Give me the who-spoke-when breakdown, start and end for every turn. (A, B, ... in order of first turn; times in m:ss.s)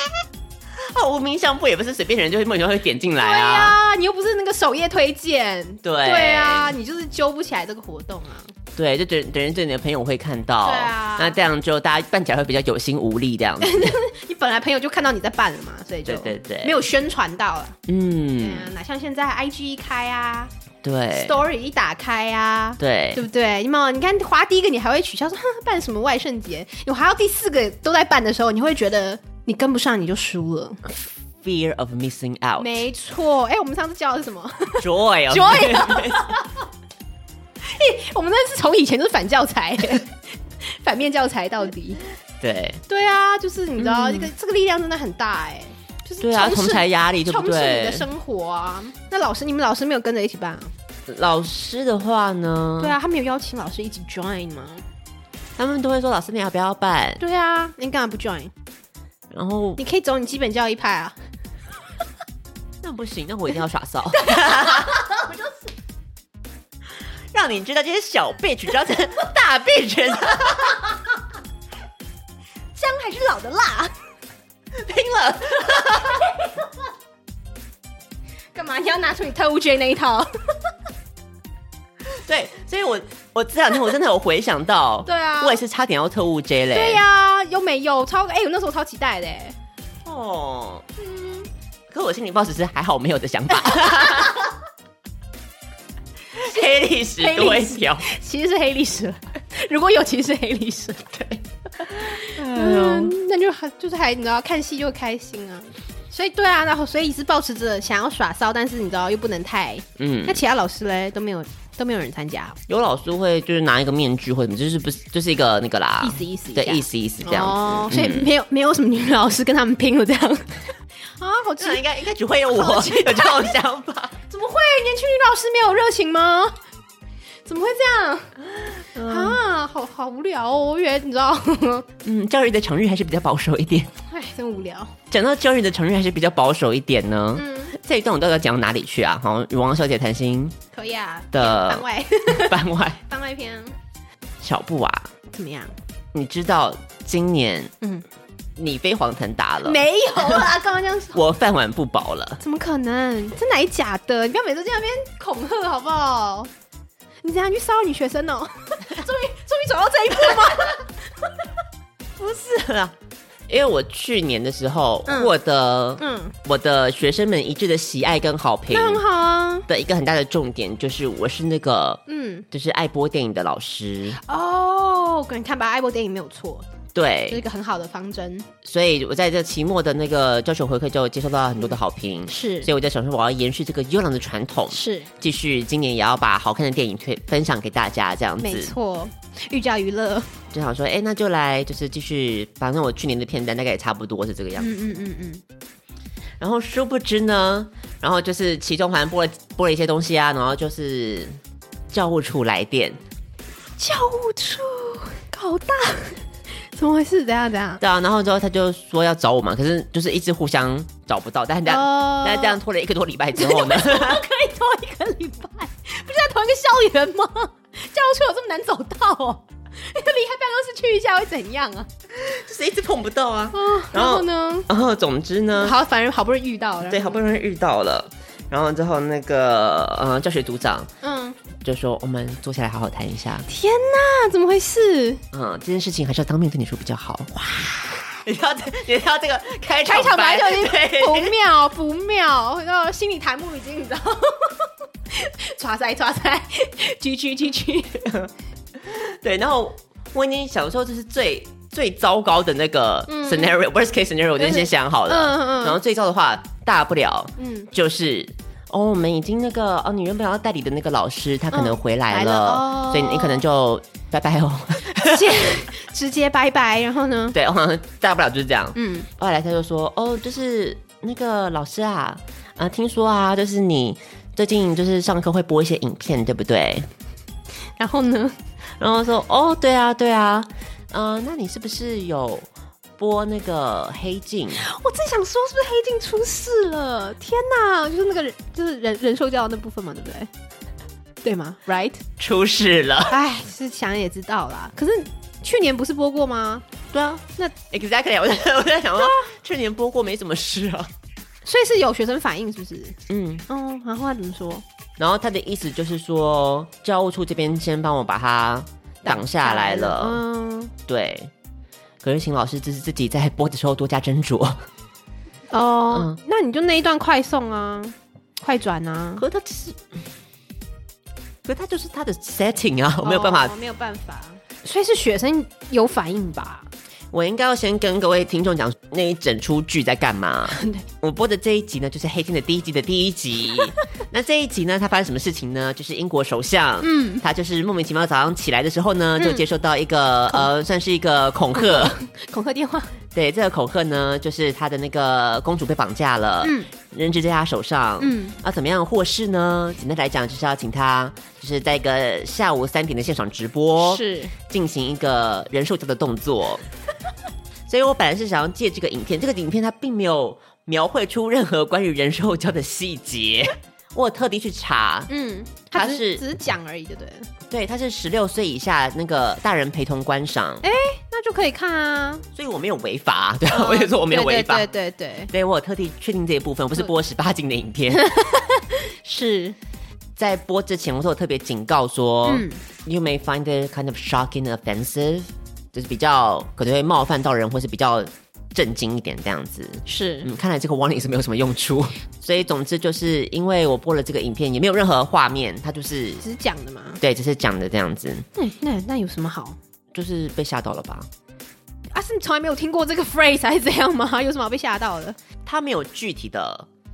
0:00.8-0:03.8 A
0:03.2-0:08.5 B
0:05.8-0:06.8 A
0:08.8-0:14.0 A
0:10.6-0:11.4 B
0:13.6-0:17.8 B
0:16.0-0:16.8 A
0:17.9-0:18.7 A
0:18.4-0:20.5 B
0:20.8-0:21.4 A
0:21.1-0:30.8 B
0:22.8-0:23.2 A
0:31.4-0:32.8 A
0:32.6-0:36.6 B
0:34.8-0:36.3 A
0:37.6-0:42.0 B
0:42.4-0:42.8 A
0:42.9-0:50.7 B
0:43.8-0:44.3 A
0:46.2-0:48.1 A
0:51.1-0:53.0 A
0:52.8-0:54.8 B
0:55.6-0:57.2 A
0:57.2-0:58.5 B
0:59.3-0:59.8 A
0:59.8-1:01.2 B
1:02.8-1:05.0 A
1:04.2-1:05.7 B
1:07.3-1:10.8 A
1:12.8-1:13.9 B
1:14.8-1:16.2 A
1:16.0-1:16.5 B
1:18.5-1:20.3 B
1:22.1-1:27.0 A
1:25.1-1:25.6 B
1:26.7-1:29.6 B
1:30.0-1:30.9 A
1:31.0-1:31.5 B
1:31.9-1:34.5 A
1:36.4-1:38.1 A
1:36.4-1:41.3 B
1:41.2-1:43.2 A
1:41.9-1:52.6 B
1:50.0-1:50.4 A
1:52.7-1:58.3 A
1:56.0-2:00.6 B
2:01.2-2:01.8 B
2:01.6-2:04.2 A
2:02.5-2:03.6 B
2:04.3-2:06.6 B
2:07.4-2:08.3 B
2:09.0-2:09.4 A
2:09.1-2:11.9 B
2:12.0-2:13.9 A
2:14.1-2:14.9 B
2:15.1-2:20.6 A
2:17.4-2:17.7 B
2:20.7-2:23.8 B
2:21.3-2:23.0 A
2:24.4-2:25.1 A
2:25.3-2:25.8 B
2:26.1-2:27.7 A
2:28.6-2:30.4 A
2:29.6-2:31.2 B
2:31.2-2:32.4 A
2:32.4-2:36.5 B
2:37.2-2:40.9 B
2:42.2-2:43.0 A
2:43.5-2:49.0 A
2:45.1-2:45.3 B
2:46.0-2:46.4 B
2:48.7-2:49.7 B
2:49.7-2:54.2 A
2:52.1-2:52.5 B
2:54.2-2:56.7 B
2:57.0-2:57.4 A
2:57.3-2:58.5 B
2:58.6-3:08.7 A
3:02.3-3:02.7 B
3:04.7-3:05.1 B
3:08.4-3:10.3 B
3:10.5-3:14.7 A
3:14.6-3:15.4 B
3:16.4-3:21.4 A
3:21.9-3:23.0 A
3:23.8-3:26.2 B
3:26.7-3:27.8 B
3:27.8-3:34.2 A
3:31.7-3:32.6 B
3:33.4-3:41.9 B
3:42.2-3:45.8 A
3:43.5-3:44.7 B
3:45.6-3:47.2 B
3:46.9-3:50.9 A
3:51.0-3:51.4 B
3:51.6-3:53.5 A
3:53.5-3:55.2 B
3:55.3-4:01.3 A
3:59.7-4:08.3 B
4:08.8-4:25.6 A
4:13.1-4:13.6 B
4:14.4-4:15.8 B
4:17.4-4:17.7 B
4:21.5-4:23.4 B
4:24.9-4:27.4 B
4:27.3-4:36.9 A
4:28.8-4:29.1 B
4:37.8-4:38.4 B
4:38.8-4:44.6 A
4:44.6-4:50.3 B
4:51.2-4:52.0 B
4:52.2-4:53.2 A
4:53.1-4:56.6 B
4:56.9-5:00.9 A
4:59.0-4:59.3 B
5:01.4-5:03.0 B
5:03.1-5:03.4 A
5:03.5-5:04.6 B
5:05.0-5:10.2 A
5:09.0-5:10.7 B
5:10.9-5:11.3 A
5:12.0-5:14.6 A
5:15.5-5:19.2 B
5:15.9-5:16.2 A
5:19.2-5:19.8 A
5:21.4-5:23.5 A
5:23.0-5:26.7 B
5:27.1-5:42.0 A
5:30.5-5:30.8 B
5:36.8-5:37.2 B
5:39.2-5:39.5 B
5:41.6-5:42.9 B
5:43.1-5:56.6 A
5:46.4-5:46.7 B
5:48.0-5:48.4 B
5:53.8-5:54.3 B
5:57.7-6:05.1 A
6:05.1-6:07.3 B
6:05.7-6:06.2 A
6:07.5-6:10.6 A
6:10.6-6:12.2 B
6:12.3-6:14.7 A
6:13.5-6:15.3 B
6:15.3-6:18.1 A
6:17.9-6:19.6 B
6:20.2-6:36.2 A
6:22.3-6:22.6 B
6:29.9-6:30.3 B
6:36.2-6:37.0 B
6:37.0-6:38.3 A
6:38.4-6:39.6 B
6:39.9-6:41.1 A
6:41.9-6:45.2 B
6:45.4-6:46.7 A